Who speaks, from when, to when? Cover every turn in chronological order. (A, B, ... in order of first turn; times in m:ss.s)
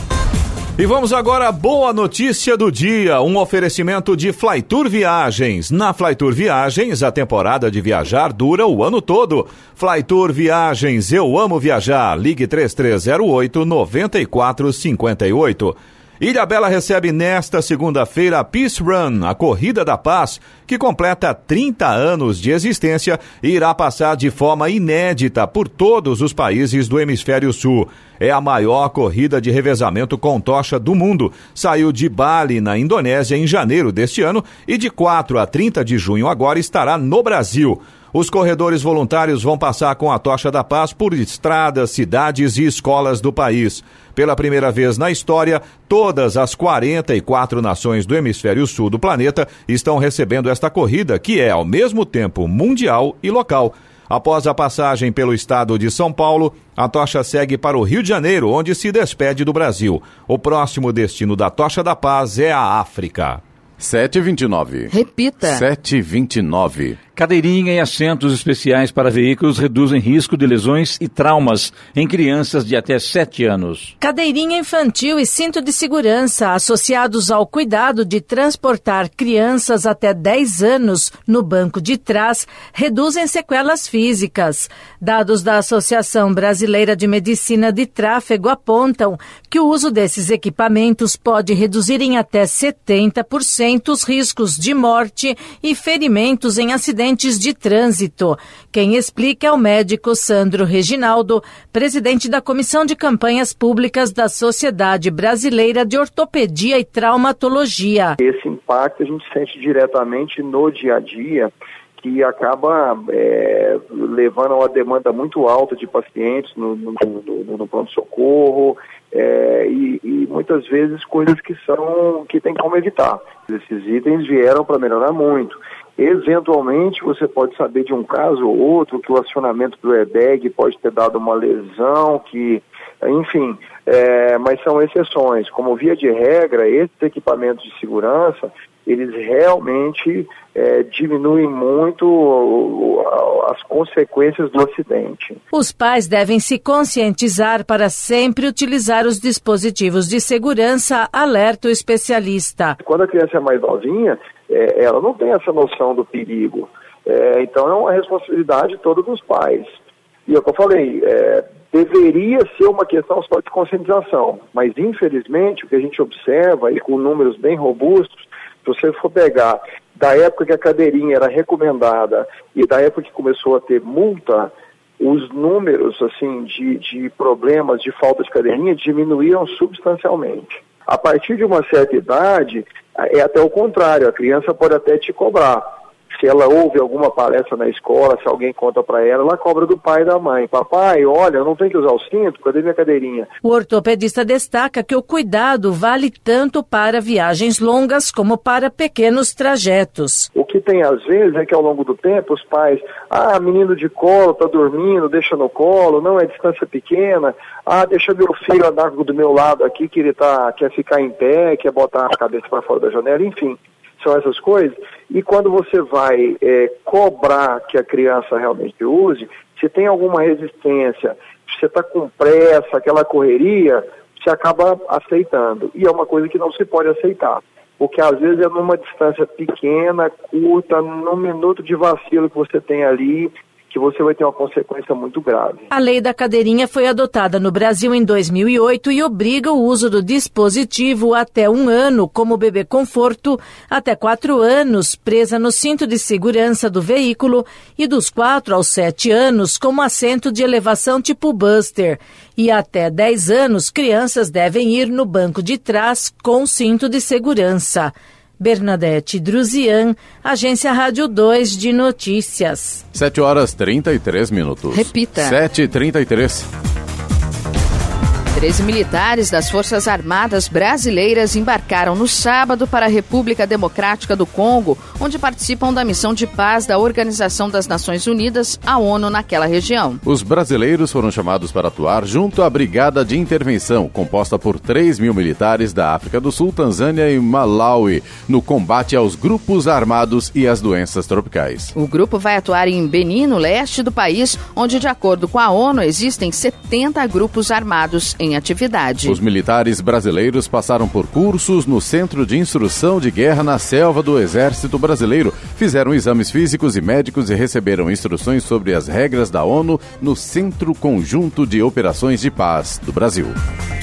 0:00.8-1:03.4 A
1:03.8-1:04.9 B
1:04.9-1:05.6 C
1:05.4-1:07.0 B
1:07.2-1:13.9 D
1:14.0-1:48.2 E
1:48.2-2:25.4 F
2:25.5-2:32.8 E
2:32.8-2:39.7 F
2:40.3-3:13.3 F
3:13.4-3:20.3 E
3:20.3-3:55.6 F
3:55.7-4:22.8 E
4:22.9-4:26.5 B
4:24.7-4:25.4 C
4:28.3-4:40.0 C
4:40.0-4:51.7 B
4:51.7-4:59.2 C
4:59.0-5:13.3 B